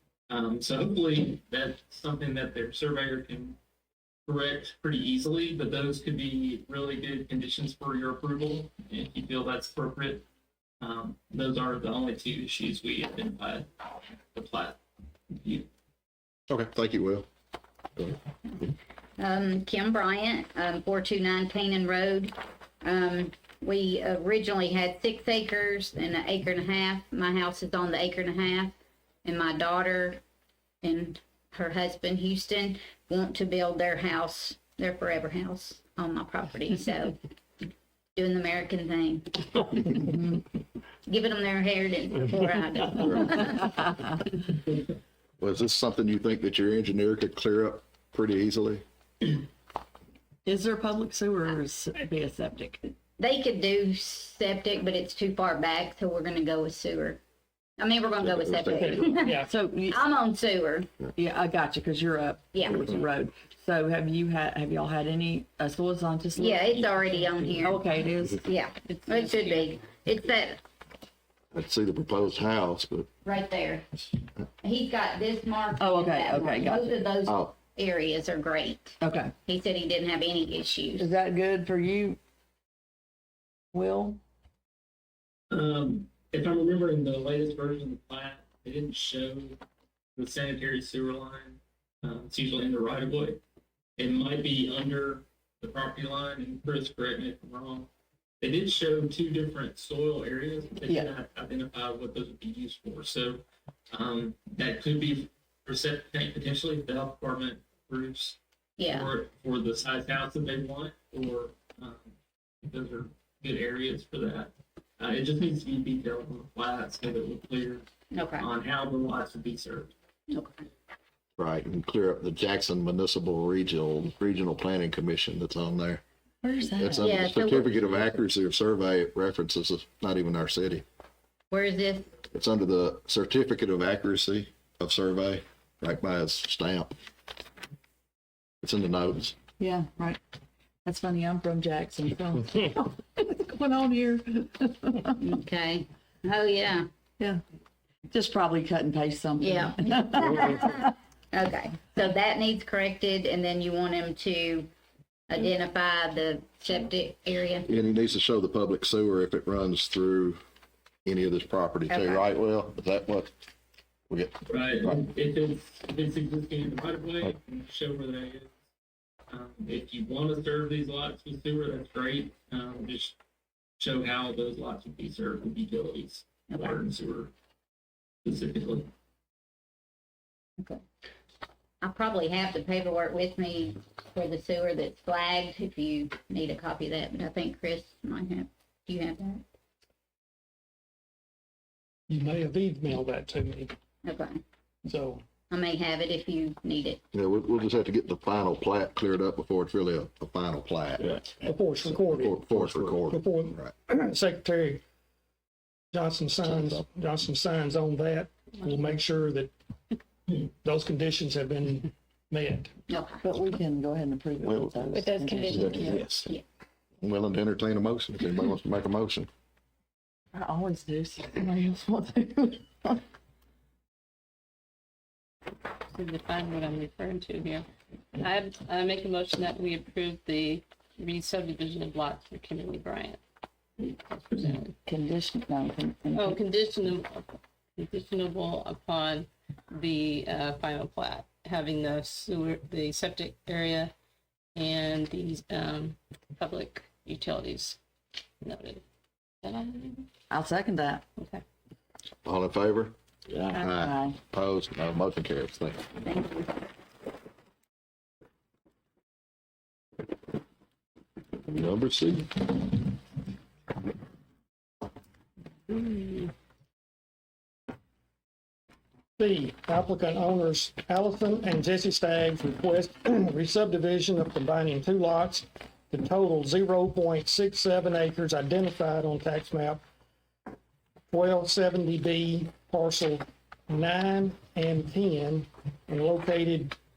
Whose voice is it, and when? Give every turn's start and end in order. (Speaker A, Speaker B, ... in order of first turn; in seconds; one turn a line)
Speaker A: 0.3-3.6
Speaker A: 4.3-10.3
Speaker A: 10.8-13.7
Speaker A: 14.3-14.8
Speaker A: 15.3-15.7
Speaker B: 16.5-17.3
Speaker C: 19.2-30.2
Speaker C: 30.8-37.2
Speaker C: 38.2-40.0
Speaker C: 41.1-43.8
Speaker B: 43.0-43.4
Speaker B: 45.4-48.8
Speaker D: 50.5-52.9
Speaker C: 53.2-57.2
Speaker C: 57.8-60.9
Speaker B: 58.2-59.0
Speaker E: 58.7-59.5
Speaker D: 59.4-60.1
Speaker D: 61.2-68.5
Speaker C: 62.5-62.9
Speaker C: 66.3-67.8
Speaker C: 68.4-70.6
Speaker F: 68.9-69.7
Speaker B: 71.5-73.1
Speaker C: 73.2-73.9
Speaker C: 74.6-81.1
Speaker D: 75.8-76.9
Speaker B: 77.3-77.5
Speaker D: 79.0-79.3
Speaker D: 81.0-82.2
Speaker D: 83.7-84.2
Speaker A: 85.5-89.6
Speaker A: 90.2-93.4
Speaker A: 94.0-97.9
Speaker A: 98.4-108.4
Speaker C: 108.8-109.1
Speaker A: 108.9-117.8
Speaker C: 118.1-118.5
Speaker A: 118.4-119.9
Speaker C: 120.3-120.6
Speaker B: 121.4-126.0
Speaker D: 126.4-127.2
Speaker B: 126.8-130.8
Speaker C: 127.0-127.7
Speaker C: 131.5-132.1
Speaker B: 132.3-136.9
Speaker B: 138.6-139.4
Speaker D: 139.6-140.2
Speaker D: 140.8-145.2
Speaker C: 145.2-146.9
Speaker D: 148.1-150.8
Speaker C: 149.4-154.7
Speaker C: 155.3-157.7
Speaker B: 157.7-160.4
Speaker B: 161.1-163.3
Speaker C: 161.9-162.3
Speaker B: 164.1-165.0
Speaker A: 164.5-168.6
Speaker A: 169.3-173.2
Speaker A: 173.8-177.3
Speaker C: 176.5-176.8
Speaker A: 178.2-178.9
Speaker C: 181.8-189.4
Speaker E: 192.1-193.7
Speaker C: 194.0-194.4
Speaker E: 194.8-195.2
Speaker C: 195.5-197.0
Speaker B: 197.1-203.7
Speaker E: 201.4-204.8
Speaker E: 205.9-209.5
Speaker B: 206.5-206.8
Speaker E: 210.6-212.7
Speaker C: 212.9-213.3
Speaker D: 213.2-216.2
Speaker B: 214.4-216.3
Speaker C: 214.9-216.4
Speaker F: 215.3-215.7
Speaker B: 217.0-219.3
Speaker D: 220.3-223.0
Speaker F: 225.9-227.7
Speaker F: 228.2-233.2
Speaker F: 233.8-234.8
Speaker D: 234.9-236.4
Speaker F: 236.1-243.9
Speaker F: 244.6-247.8
Speaker F: 248.4-248.8
Speaker F: 249.4-250.1
Speaker D: 250.3-251.0
Speaker F: 251.2-251.4
Speaker B: 252.2-253.0
Speaker D: 253.4-254.2
Speaker B: 253.5-255.9
Speaker C: 256.1-256.5
Speaker B: 261.5-262.5
Speaker F: 265.7-266.3
Speaker E: 269.2-279.8
Speaker E: 281.1-286.8